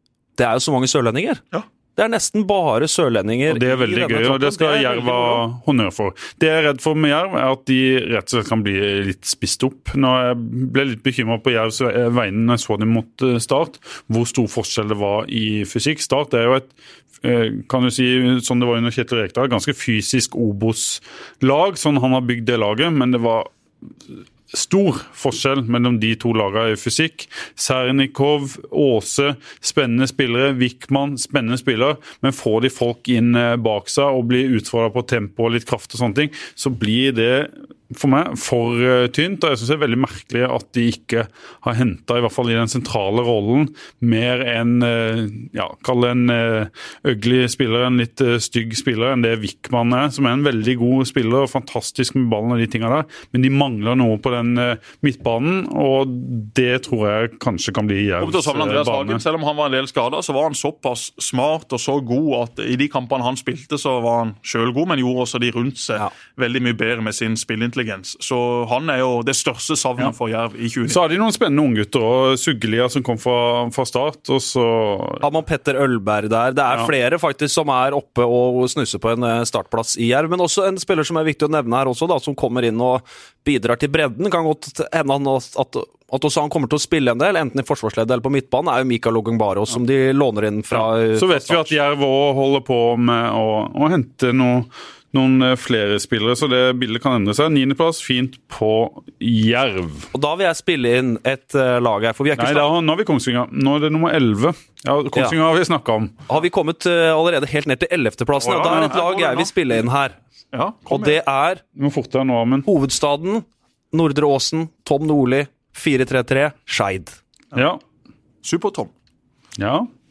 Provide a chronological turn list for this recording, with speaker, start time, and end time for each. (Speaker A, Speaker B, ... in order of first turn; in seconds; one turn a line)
Speaker A: 0.4-1.4
Speaker A: 1.9-5.4
Speaker B: 3.5-23.5
Speaker B: 24.1-59.2
Speaker C: 58.2-71.0
Speaker B: 70.9-75.2
Speaker A: 75.2-91.7
Speaker B: 90.7-100.1
Speaker A: 100.1-102.7
Speaker B: 102.3-106.1
Speaker A: 106.3-110.2
Speaker C: 108.4-109.8
Speaker C: 110.5-111.2
Speaker A: 110.9-111.6
Speaker B: 111.8-112.7
Speaker A: 112.7-117.2
Speaker B: 117.5-117.8
Speaker C: 118.4-118.9
Speaker B: 119.6-119.9